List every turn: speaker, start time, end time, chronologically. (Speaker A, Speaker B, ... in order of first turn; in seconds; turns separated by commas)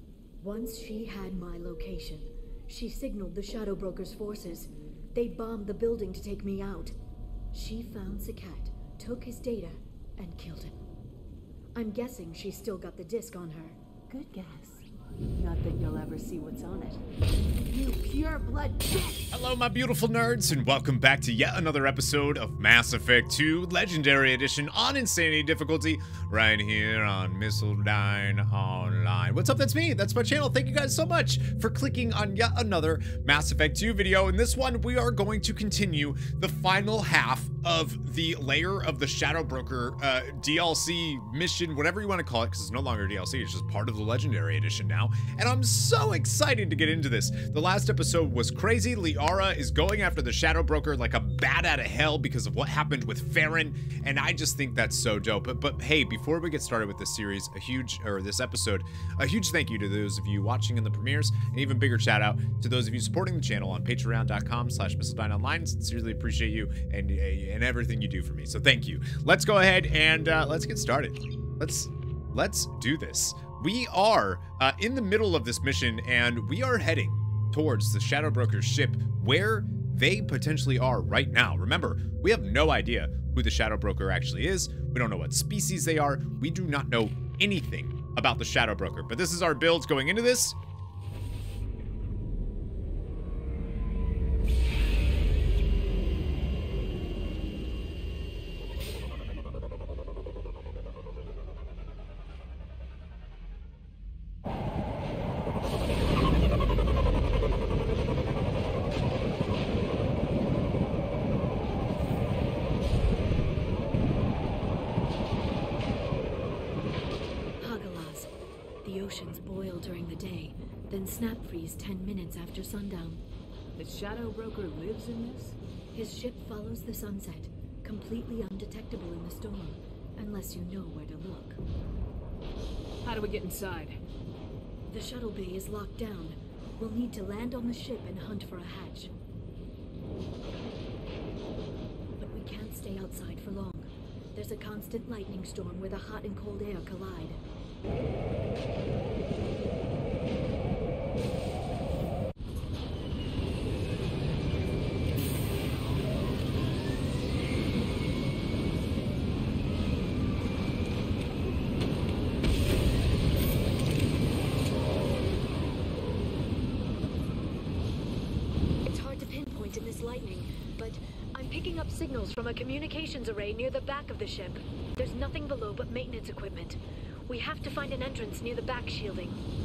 Speaker A: 0.4-7.0, Speaker A: 7.5-10.8, Speaker A: 11.8-13.8, Speaker B: 14.1-17.0, Speaker B: 17.7-19.2, Speaker C: 19.3-90.6, Speaker A: 117.6-118.3, Speaker A: 118.8-123.2, Speaker B: 123.8-125.6, Speaker A: 125.9-131.6, Speaker B: 133.0-134.0, Speaker A: 134.9-139.1, Speaker A: 142.2-147.4, Speaker A: 168.8-179.4